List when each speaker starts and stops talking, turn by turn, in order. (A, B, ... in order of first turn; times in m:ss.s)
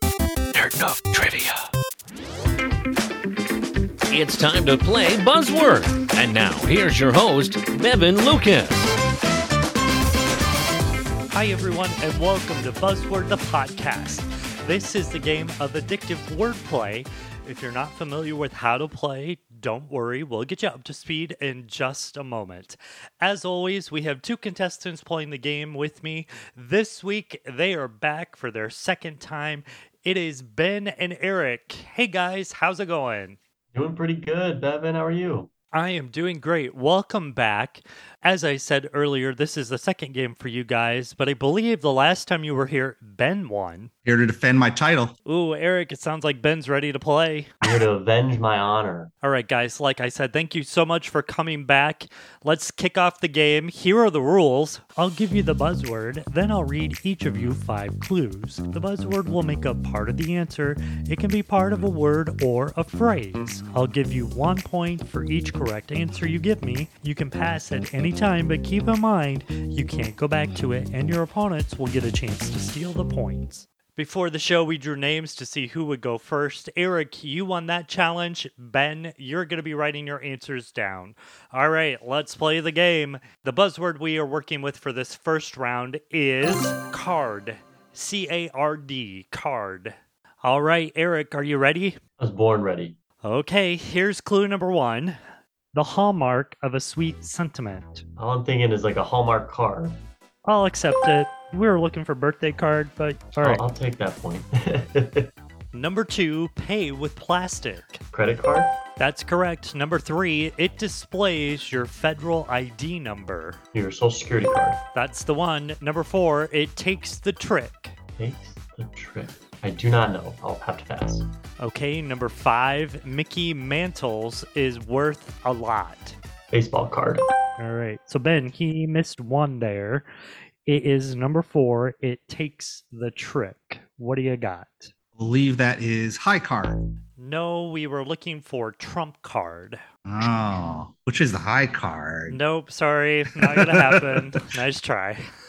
0:00.6-0:01.6 A
0:04.1-0:09.0 A
0:11.3-0:33.4 B
0:33.7-0:35.5 C
0:35.7-0:43.9 B
0:44.1-0:45.1 D
0:45.3-0:47.6 B
0:47.6-0:49.1 C
0:49.2-1:32.0 B
1:32.2-1:33.0 C
1:33.2-1:35.2 B
1:35.7-1:38.0 B
1:38.2-1:40.0 C
1:40.5-1:43.6 B
1:43.4-1:45.3 C
1:45.7-1:48.0 B
1:48.1-1:48.8 C
1:49.0-1:53.6 B
1:53.7-1:54.8 C
1:55.0-1:57.9 B
1:58.2-2:01.3 C
2:01.6-2:06.2 B
2:06.5-2:07.2 C
2:07.6-2:10.1 B
2:10.7-2:14.9 B
2:15.2-2:16.8 D
2:17.2-2:19.8 B
2:20.1-2:22.4 D
2:22.3-2:25.2 B
2:23.4-2:24.3 D